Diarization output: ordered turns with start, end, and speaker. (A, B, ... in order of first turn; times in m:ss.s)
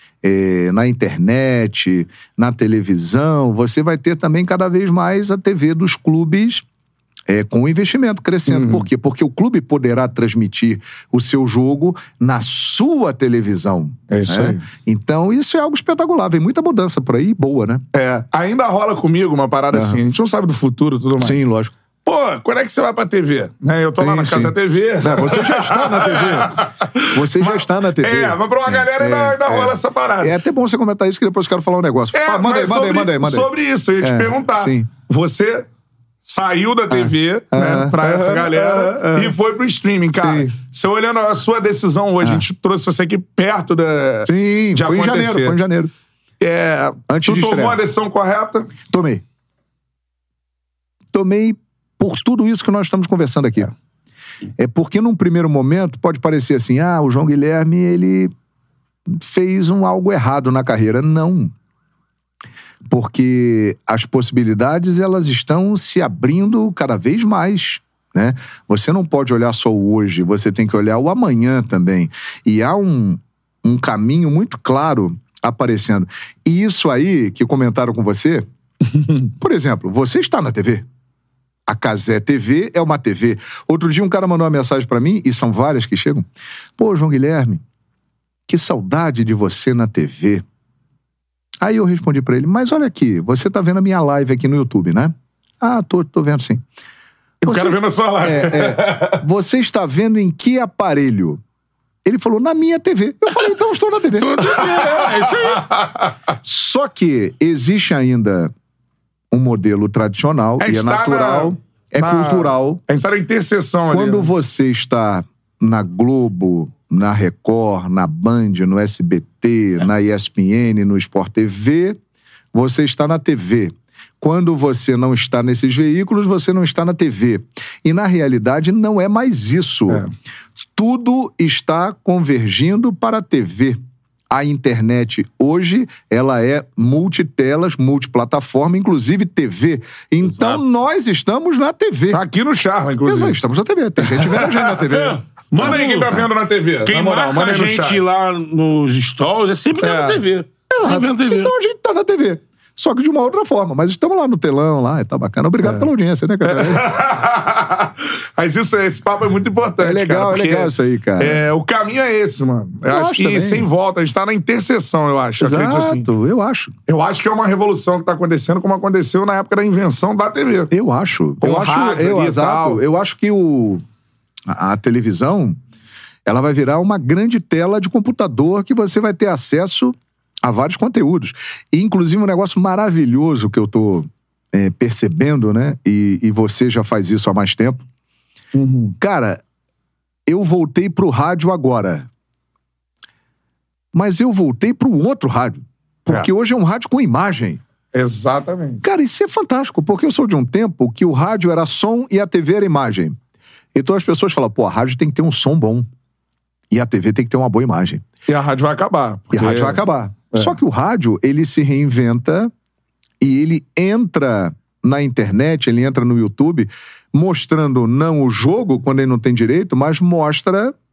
0:00.2-0:06.6 A
0:07.3-0:17.8 A
0:08.5-0:08.8 B
0:14.1-0:14.6 B
0:17.9-0:21.4 B
0:19.7-0:20.0 A
0:21.2-0:21.7 A
0:22.0-0:30.4 B
0:24.0-0:33.5 A
0:32.1-0:35.7 B
0:34.0-0:34.9 A
0:36.2-0:45.6 B
0:36.9-0:39.3 A
0:40.2-0:40.5 A
0:44.2-0:45.9 A
0:46.4-0:48.7 B
0:47.1-0:47.8 A
0:48.8-0:49.2 A
0:51.1-0:53.7 A
0:54.6-0:58.3 A
0:59.1-1:01.5 A
1:02.9-1:18.4 A
1:19.3-1:20.9 A
1:21.7-1:26.2 A
1:26.8-1:27.6 A
1:28.5-1:30.4 A
1:31.6-1:36.6 A
1:37.4-1:39.2 B
1:37.4-1:41.4 A
1:42.0-1:44.7 A
1:44.1-1:45.7 C
1:44.6-1:46.1 B
1:46.4-1:48.5 A
1:49.3-1:52.8 A
1:50.6-1:54.3 B
1:53.9-2:02.0 A
2:02.5-2:10.1 A
2:10.8-2:13.8 A
2:14.3-2:22.2 A
2:22.1-2:23.4 B
2:23.0-2:26.2 A
2:24.0-2:28.0 B
2:24.9-2:26.2 C
2:26.8-2:31.5 C
2:29.8-2:30.2 B
2:30.7-2:36.9 A
2:36.4-2:46.1 B
2:39.8-2:41.4 A
2:42.9-2:43.7 A
2:45.4-2:46.7 A
2:46.9-2:50.7 B
2:50.7-2:53.8 A
2:51.4-2:52.8 B
2:54.5-2:55.6 A
2:56.2-3:07.8 A
3:08.5-3:08.9 B
3:09.0-3:09.4 A
3:10.3-3:12.1 A
3:13.9-3:17.6 A
3:17.9-3:18.8 B
3:18.8-3:23.2 A
3:23.7-3:25.8 A
3:26.7-3:28.0 A
3:28.3-3:29.8 B
3:29.3-3:32.5 A
3:33.2-3:40.7 A